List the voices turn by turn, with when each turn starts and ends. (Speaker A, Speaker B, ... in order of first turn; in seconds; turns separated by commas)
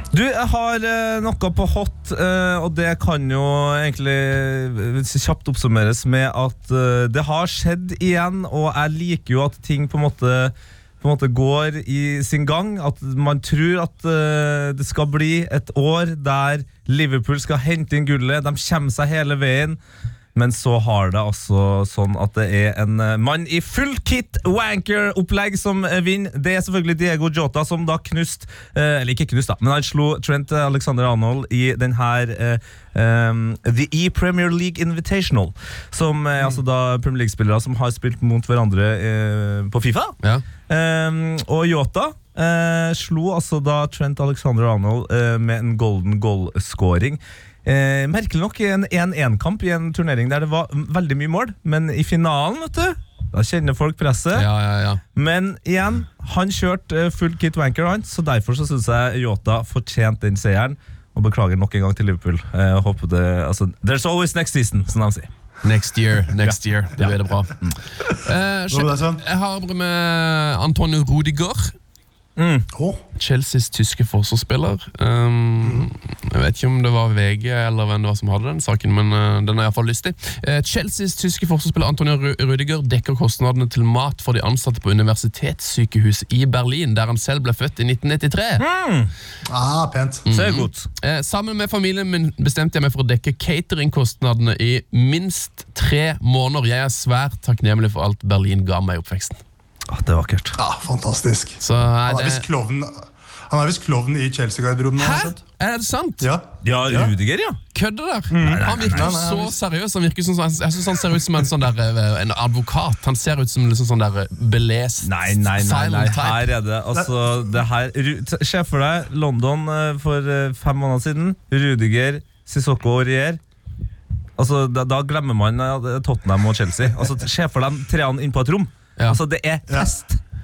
Speaker A: 0.1-19.8, Speaker A: 20.3-54.5, Speaker B: 54.3-55.0, Speaker A: 55.1-65.3, Speaker B: 65.6-67.5, Speaker A: 66.4-67.8, Speaker B: 68.0-71.7, Speaker C: 68.7-69.2, Speaker A: 72.4-72.7, Speaker C: 72.7-73.0, Speaker B: 73.2-88.6, Speaker C: 75.6-75.9, Speaker A: 88.6-89.1, Speaker C: 89.5-90.3, Speaker B: 90.3-99.4, Speaker A: 90.3-90.9, Speaker A: 99.9-100.6, Speaker C: 100.5-105.4, Speaker B: 101.6-102.4, Speaker B: 105.0-106.3, Speaker C: 106.2-107.1, Speaker A: 106.6-107.6, Speaker B: 107.7-116.5, Speaker C: 108.3-109.6, Speaker A: 108.4-109.2, Speaker A: 115.0-123.4, Speaker A: 124.4-130.2